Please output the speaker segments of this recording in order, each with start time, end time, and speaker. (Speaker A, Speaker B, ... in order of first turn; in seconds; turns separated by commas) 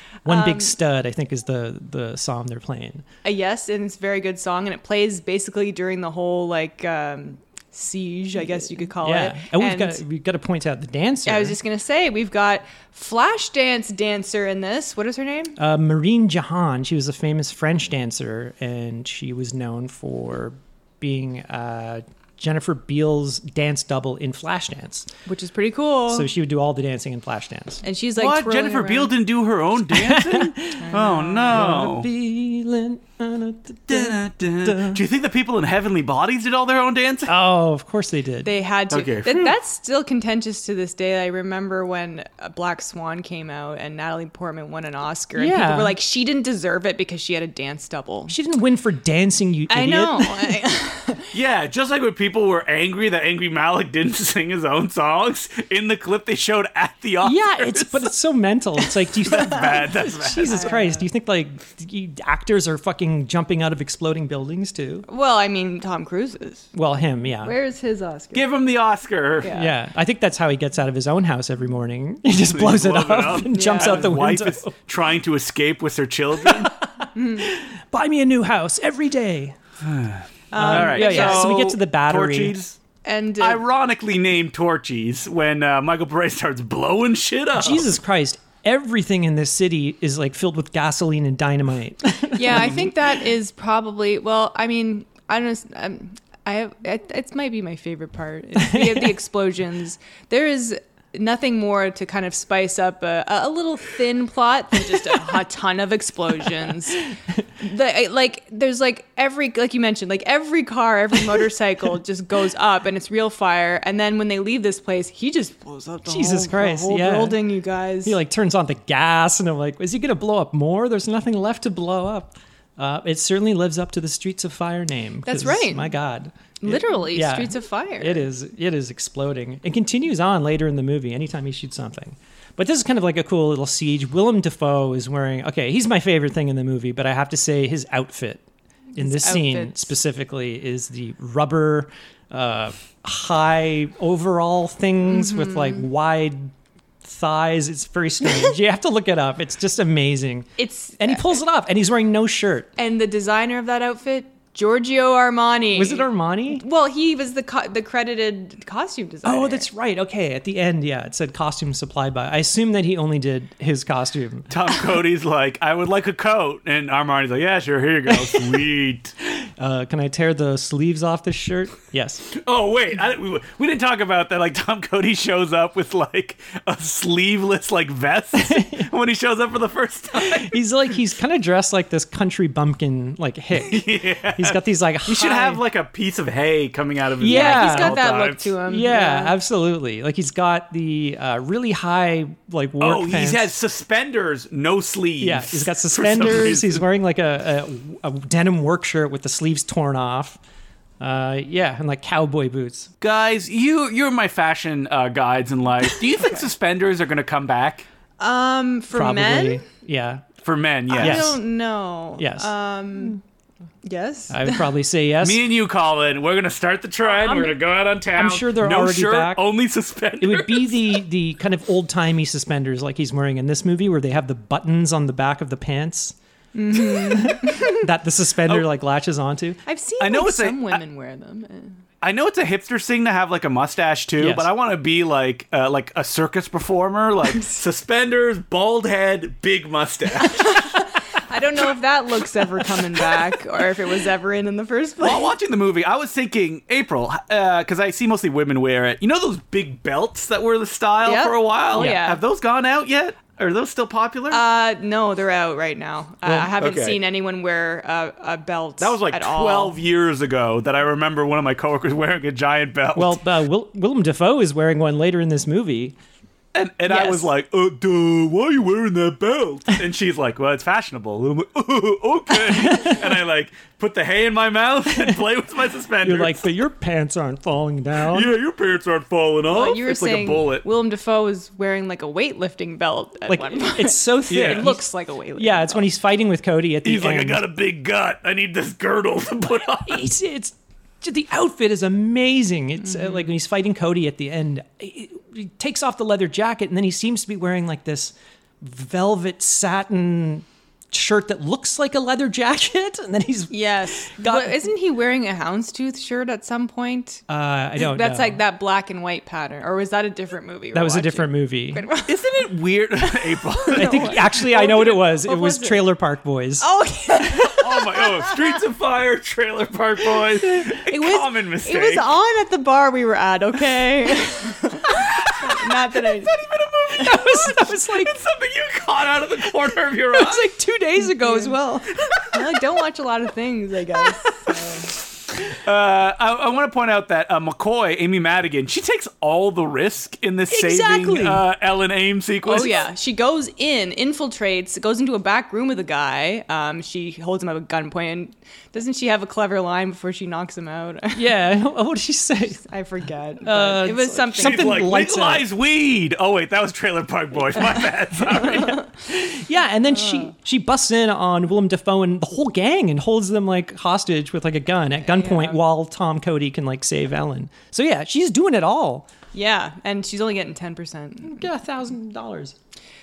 Speaker A: 0.2-0.8, Speaker B: 0.2-3.0, Speaker A: 3.2-10.0, Speaker B: 9.0-11.6, Speaker A: 11.2-15.6, Speaker B: 15.6-25.1, Speaker A: 25.2-26.3, Speaker B: 26.1-27.8, Speaker A: 27.8-29.1, Speaker C: 28.2-32.1, Speaker B: 29.9-30.9, Speaker A: 30.8-31.6, Speaker B: 31.5-35.0, Speaker C: 33.9-37.3, Speaker B: 37.3-38.5, Speaker A: 38.4-48.4, Speaker C: 38.9-39.5, Speaker B: 45.4-45.9, Speaker B: 48.3-50.6, Speaker A: 49.7-51.3, Speaker C: 51.3-58.1, Speaker B: 57.2-65.0, Speaker C: 59.2-60.8, Speaker A: 60.4-61.0, Speaker A: 65.1-66.7, Speaker B: 66.7-67.5, Speaker A: 67.4-68.5, Speaker C: 68.3-69.5, Speaker A: 69.4-69.8, Speaker B: 69.5-74.7, Speaker C: 72.5-76.7, Speaker A: 73.5-74.1, Speaker B: 76.4-79.5, Speaker A: 77.1-77.5, Speaker C: 79.8-82.8, Speaker A: 80.5-81.6, Speaker B: 80.6-82.5, Speaker A: 83.0-83.6, Speaker C: 83.4-87.8, Speaker B: 87.5-92.9, Speaker A: 92.3-118.2, Speaker B: 98.6-99.1, Speaker B: 116.0-117.4, Speaker B: 118.0-138.4, Speaker A: 125.2-125.9, Speaker A: 126.6-128.2, Speaker A: 138.9-139.9, Speaker B: 138.9-146.5, Speaker A: 145.1-145.8, Speaker B: 147.0-152.7, Speaker A: 150.6-151.3, Speaker A: 152.8-159.7, Speaker B: 155.7-156.6, Speaker B: 159.2-164.5, Speaker C: 164.5-169.1, Speaker B: 168.1-168.6, Speaker B: 169.4-172.3, Speaker C: 172.3-180.6, Speaker B: 178.3-178.9, Speaker B: 180.2-185.6, Speaker C: 183.6-188.5, Speaker B: 187.2-188.0, Speaker A: 187.2-189.3, Speaker B: 188.7-193.5, Speaker C: 192.8-196.8, Speaker B: 195.2-200.4, Speaker B: 201.0-202.9, Speaker C: 203.0-207.8, Speaker A: 208.2-209.6, Speaker B: 208.9-210.3, Speaker C: 210.4-211.4, Speaker A: 210.9-213.2, Speaker B: 211.0-211.4, Speaker B: 212.2-212.5, Speaker A: 213.8-214.7, Speaker B: 214.3-215.4, Speaker C: 215.2-221.0, Speaker A: 217.2-217.5, Speaker B: 218.1-219.4, Speaker B: 220.2-226.2, Speaker A: 226.5-227.9, Speaker B: 226.7-229.6, Speaker A: 229.7-231.8, Speaker C: 230.0-230.8, Speaker C: 232.0-240.7, Speaker B: 234.2-234.5, Speaker A: 240.2-245.3, Speaker C: 242.6-243.3, Speaker C: 245.0-254.4, Speaker A: 251.0-252.2, Speaker A: 254.3-259.8, Speaker C: 256.6-257.0, Speaker C: 258.8-263.2, Speaker B: 262.9-265.9, Speaker C: 266.5-276.4, Speaker A: 266.9-267.3, Speaker B: 272.5-273.0, Speaker B: 276.0-278.3, Speaker C: 278.1-280.6, Speaker A: 279.5-285.9, Speaker B: 283.3-287.4, Speaker C: 284.3-284.7, Speaker C: 286.8-290.0, Speaker B: 289.9-303.5, Speaker A: 292.8-293.2, Speaker A: 303.5-307.2, Speaker B: 304.1-304.6, Speaker B: 307.3-308.4, Speaker A: 307.8-312.4, Speaker B: 310.7-311.8, Speaker C: 312.1-314.7, Speaker A: 313.0-315.9, Speaker B: 313.8-316.7, Speaker A: 316.6-318.6, Speaker C: 317.5-322.1, Speaker A: 320.4-326.3, Speaker C: 324.9-330.5, Speaker B: 326.9-328.1, Speaker B: 330.1-331.9, Speaker A: 330.9-331.6, Speaker A: 332.2-334.9, Speaker C: 335.4-342.9, Speaker B: 340.5-341.4, Speaker A: 342.4-351.2, Speaker B: 351.1-352.6, Speaker A: 352.6-354.9, Speaker B: 353.4-355.4, Speaker C: 354.4-358.8, Speaker A: 358.3-358.9, Speaker B: 358.3-369.1, Speaker A: 359.9-360.3, Speaker A: 365.0-365.6, Speaker A: 369.3-371.5, Speaker B: 371.2-372.6